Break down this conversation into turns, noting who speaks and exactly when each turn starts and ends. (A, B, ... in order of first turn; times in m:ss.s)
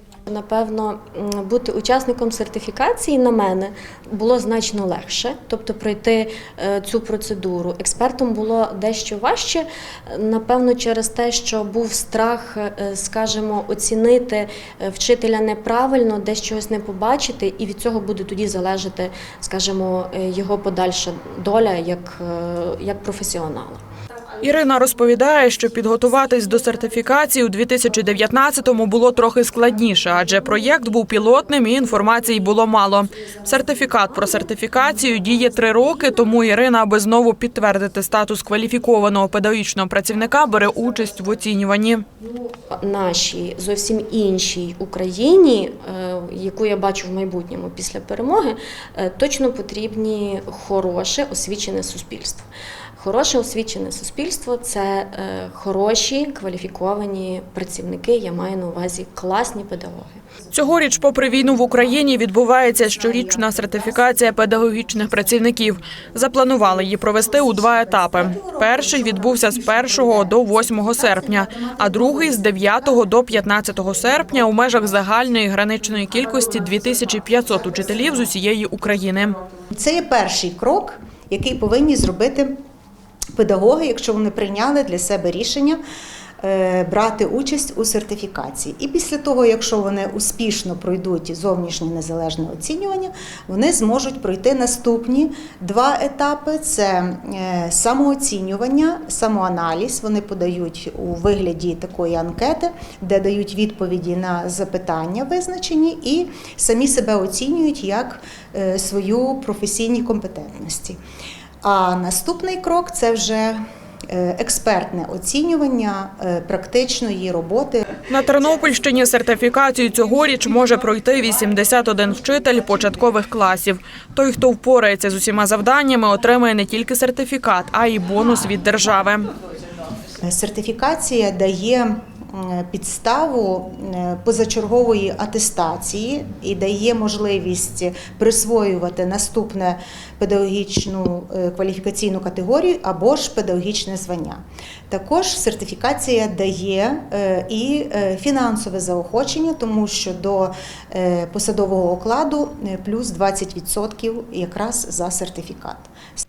0:00.3-0:23.8 A
0:24.4-0:42.0 B
0:42.7-0:52.4 A
0:53.0-1:00.2 A
1:00.5-1:19.4 B
1:03.6-1:04.2 C
1:10.2-1:10.5 C
1:11.5-1:11.9 C
1:19.7-1:22.5 C
1:23.3-1:25.8 C
1:26.4-1:51.0 C
1:51.6-1:57.8 C
1:58.1-2:09.3 B
2:10.2-2:36.2 C